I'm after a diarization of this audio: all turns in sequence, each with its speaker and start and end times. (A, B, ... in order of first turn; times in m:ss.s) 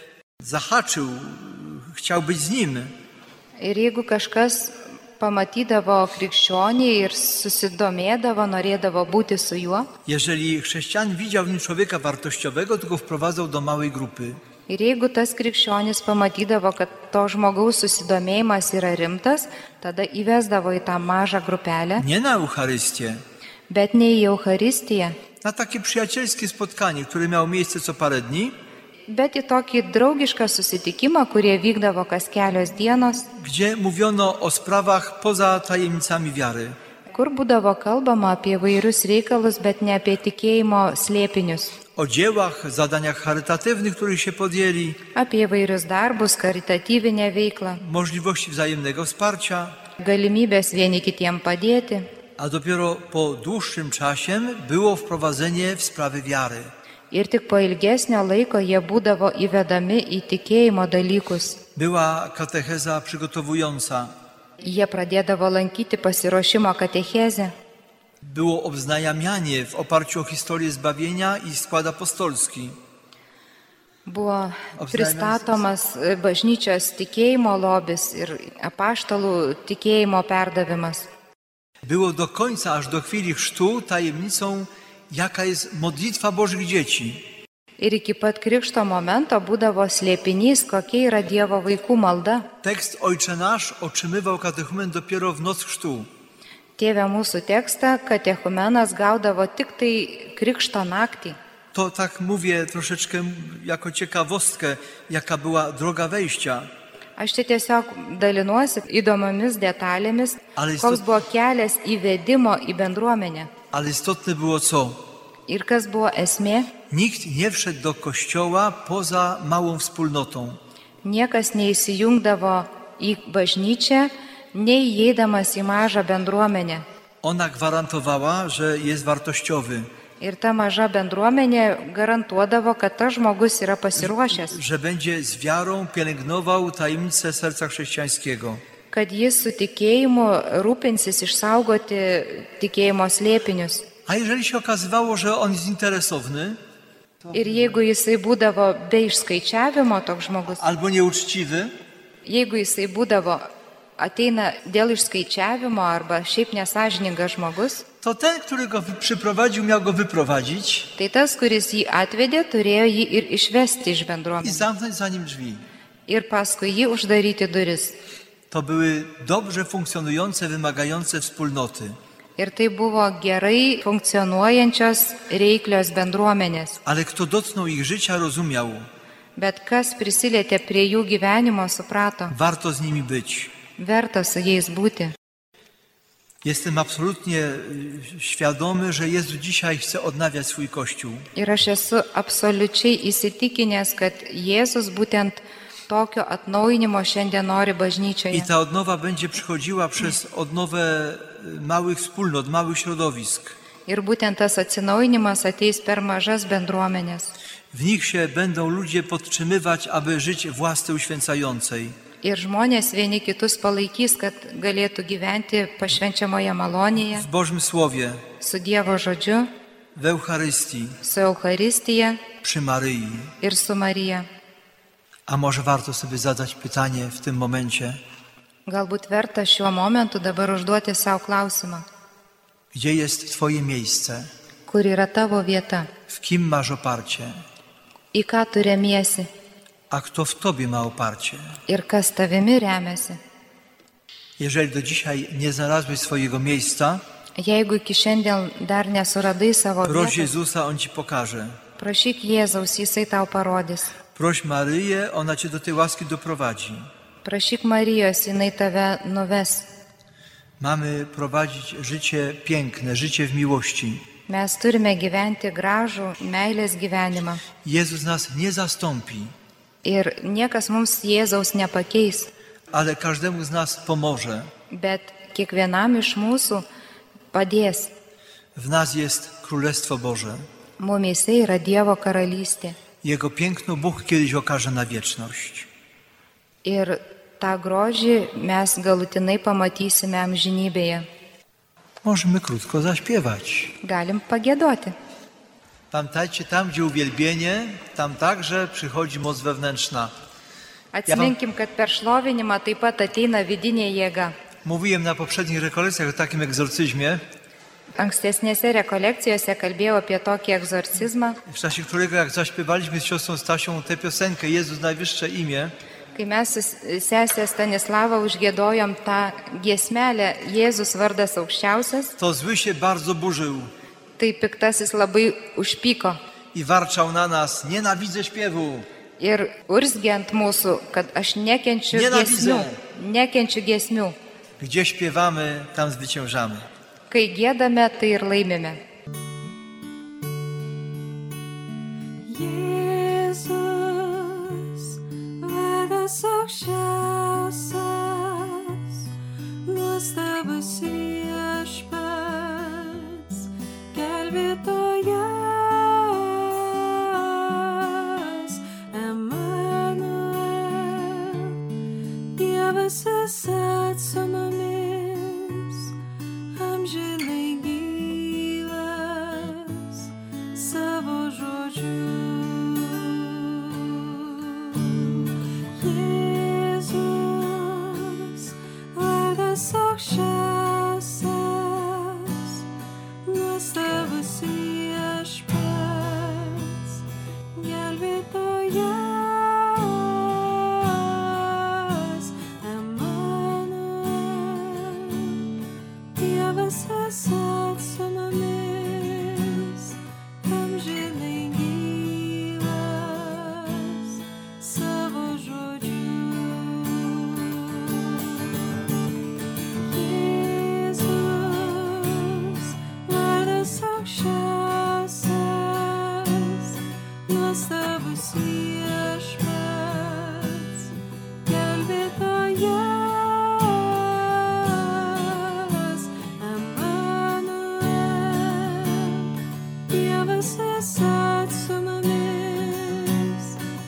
0:00.4-0:02.9 A
0:03.6-0:09.9 B
0:10.0-0:14.4 A
0:14.7-0:22.0 B
0:22.0-0:23.2 A
0:23.7-0:25.2 B
0:25.4-0:28.6 A
0:29.1-0:33.3 B
0:33.4-0:36.8 A
0:37.1-0:41.8 B
0:42.0-0:45.0 A
0:45.1-0:47.8 B
0:47.8-0:49.8 A
0:50.0-0:52.1 B
0:52.4-0:56.7 A
0:57.1-1:01.6 B
1:01.7-1:04.1 A
1:04.6-1:07.5 B
1:08.2-1:12.8 A
1:14.0-1:21.1 B
1:14.8-1:15.5 A
1:21.8-1:27.2 A
1:27.8-1:32.5 B
1:32.6-1:36.1 A
1:36.8-1:41.4 B
1:41.7-1:46.7 A
1:47.2-1:53.5 B
1:50.6-1:51.0 A
1:53.7-1:55.0 A
1:55.5-1:56.7 B
1:56.9-2:00.6 A
2:01.0-2:06.8 B
2:07.2-2:09.9 A
2:10.2-2:14.6 B
2:13.9-2:18.6 A
2:18.9-2:23.8 B
2:24.1-2:26.6 A
2:27.3-2:30.6 B
2:30.6-2:31.7 A
2:32.2-2:33.4 B
2:34.0-2:37.8 B
2:38.0-2:40.9 A
2:41.0-2:44.6 B
2:44.4-2:45.6 A
2:46.1-2:48.0 B
2:48.5-2:52.0 A
2:52.4-2:56.8 B
2:56.8-2:58.9 A
2:59.4-3:02.3 B
3:02.3-3:03.5 A
3:03.8-3:05.1 B
3:06.4-3:11.3 A
3:11.4-3:18.5 B
3:18.3-3:23.6 A
3:23.9-3:27.3 B
3:27.7-3:32.0 A
3:32.2-3:37.2 B
3:37.1-3:38.2 A
3:38.4-3:39.5 B
3:39.9-3:41.0 A
3:41.0-3:42.2 B
3:42.4-3:43.3 A
3:43.4-3:44.3 B
3:45.3-3:48.0 A
3:48.7-3:51.8 B
3:52.7-3:54.3 A
3:54.7-3:55.9 B
3:56.1-3:57.3 A
3:58.1-3:59.3 B
3:59.9-4:01.6 A
4:01.7-4:03.2 B
4:04.4-4:07.0 A
4:07.4-4:10.3 B
4:09.8-4:11.6 A
4:11.8-4:13.9 B
4:14.1-4:16.9 A
4:17.2-4:19.7 B
4:20.6-4:24.0 A
4:24.3-4:27.4 B
4:27.6-4:29.3 A
4:29.8-4:32.3 B
4:32.7-4:34.5 A
4:34.7-4:36.6 B
4:37.3-4:37.9 B
4:38.5-4:40.4 A
4:40.8-4:42.8 B
4:43.0-4:45.7 A
4:46.6-4:51.0 B
4:52.0-4:53.7 A
4:53.8-4:54.9 B
4:55.9-5:00.1 A
5:00.9-5:04.3 B
5:01.1-5:01.3 A
5:04.6-5:07.2 A
5:08.0-5:11.4 B
5:11.5-5:15.7 A
5:16.1-5:22.1 B
5:22.2-5:23.7 A
5:24.2-5:26.2 B
5:26.5-5:28.9 A
5:29.2-5:34.1 B
5:31.9-5:32.8 A
5:34.6-5:36.7 A
5:37.1-5:38.8 B
5:42.2-5:49.1 C
5:49.6-6:01.6 C
6:02.3-6:05.9 C
6:06.5-6:22.6 C
6:23.2-6:35.5 C
6:36.1-6:48.6 C
6:49.8-7:13.6 C